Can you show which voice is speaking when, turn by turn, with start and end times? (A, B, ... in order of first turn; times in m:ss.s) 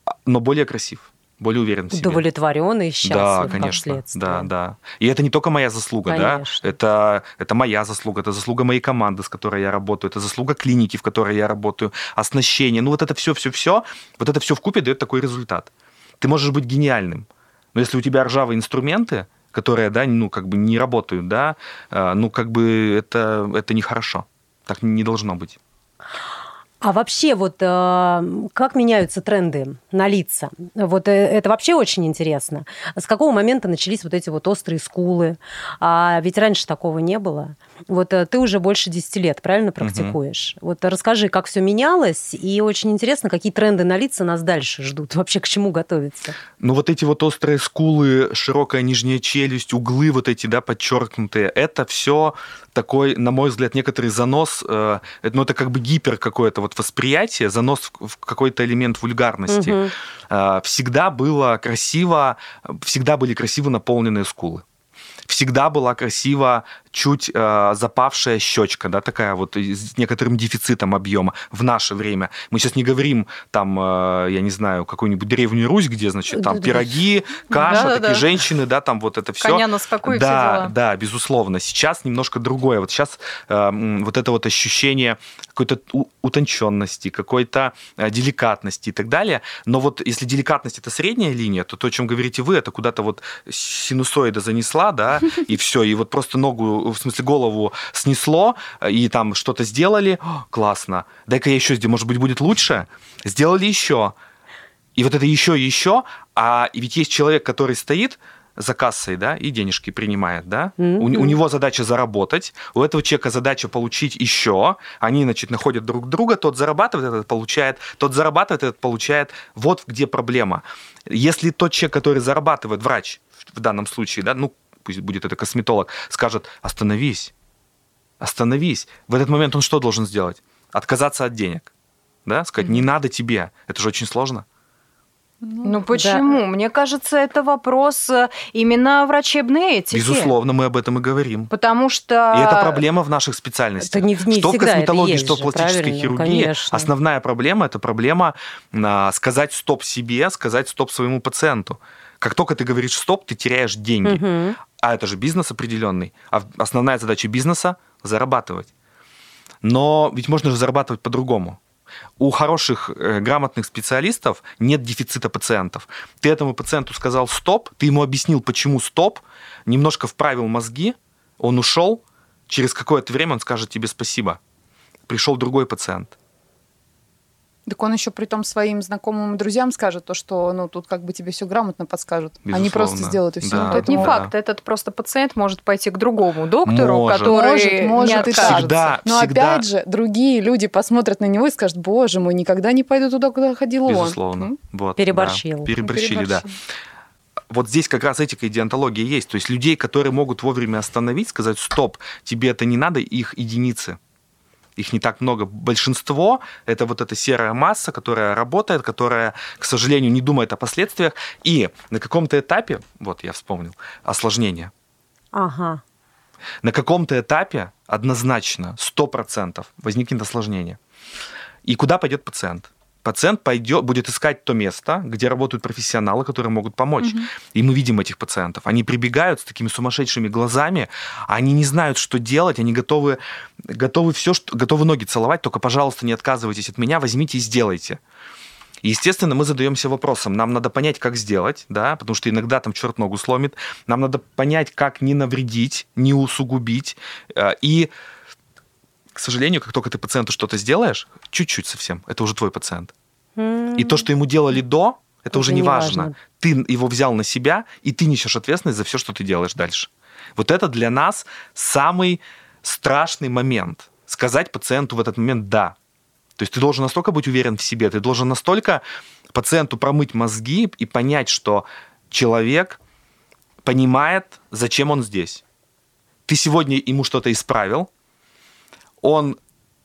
0:00.3-0:02.2 A
0:01.9-0:04.5 B
0:03.0-0:25.6 A
0:06.1-0:06.7 B
0:26.8-0:46.4 B
0:39.8-0:40.2 A
0:46.6-1:04.6 A
0:59.5-0:59.9 B
1:05.3-1:44.2 A
1:16.4-1:16.9 B
1:17.5-1:18.2 C
1:19.4-1:20.7 C
1:45.0-2:07.3 A
1:50.8-1:51.4 B
2:08.2-2:11.7 A
2:12.2-2:14.4 A
2:15.4-2:15.9 D
2:15.6-2:20.3 C
2:15.9-2:16.2 B
2:19.9-2:21.5 A
2:21.5-2:22.8 C
2:22.3-2:38.7 A
2:23.8-2:26.9 B
2:34.0-2:34.6 B
2:39.6-2:41.6 A
2:42.2-2:54.4 A
2:55.1-2:56.2 A
2:57.7-3:04.2 D
3:02.4-3:04.3 A
3:03.5-3:08.7 C
3:06.6-3:07.4 A
3:07.2-3:14.6 D
3:08.0-3:09.6 A
3:13.8-3:16.5 A
3:15.0-3:15.8 B
3:15.8-3:16.5 D
3:17.5-3:24.0 A
3:24.8-3:34.7 A
3:35.3-3:35.8 B
3:36.6-3:40.8 A
3:41.6-3:58.0 A
3:58.8-4:07.9 A
4:09.2-4:12.9 A
4:13.4-4:14.1 B
4:13.8-4:25.8 A
4:15.3-4:16.2 B
4:26.4-4:32.8 A
4:33.6-4:35.4 A
4:36.3-4:37.9 A
4:39.0-4:39.4 A